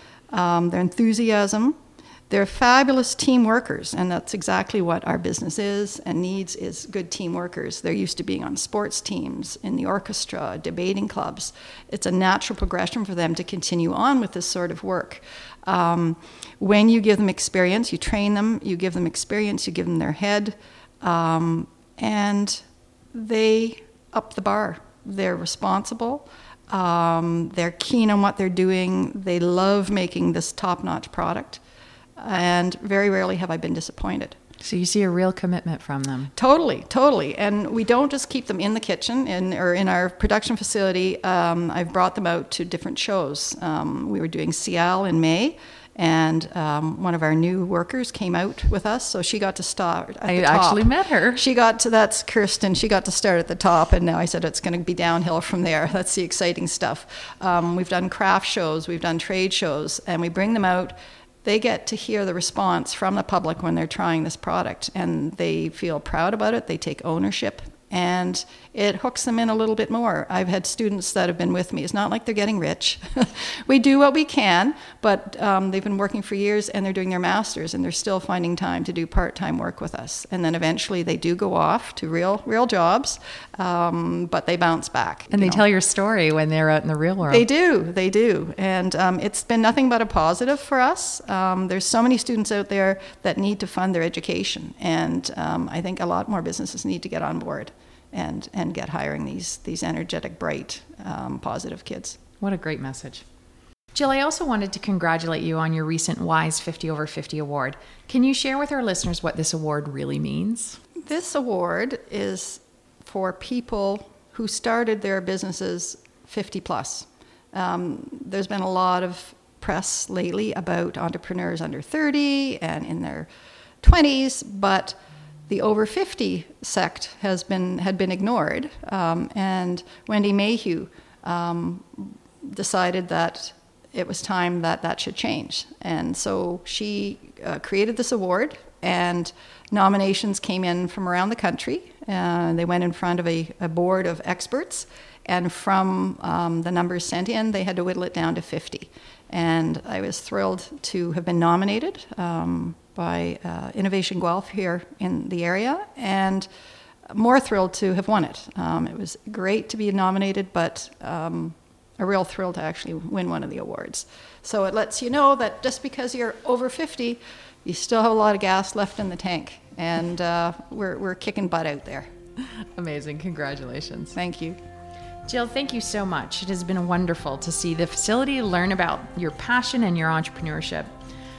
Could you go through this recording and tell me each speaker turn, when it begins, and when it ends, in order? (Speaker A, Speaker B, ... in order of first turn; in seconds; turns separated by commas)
Speaker A: 0.3-1.8, Speaker A: 2.3-31.6, Speaker A: 32.2-34.4, Speaker B: 34.6-36.3, Speaker A: 36.4-85.6, Speaker B: 50.2-51.4, Speaker B: 85.3-87.4, Speaker A: 87.2-102.2, Speaker B: 102.4-103.2, Speaker B: 103.9-110.8, Speaker A: 111.0-123.3, Speaker A: 123.8-125.0, Speaker A: 125.5-156.5, Speaker A: 157.1-172.1, Speaker B: 172.5-174.2, Speaker A: 174.2-174.6, Speaker B: 175.2-180.9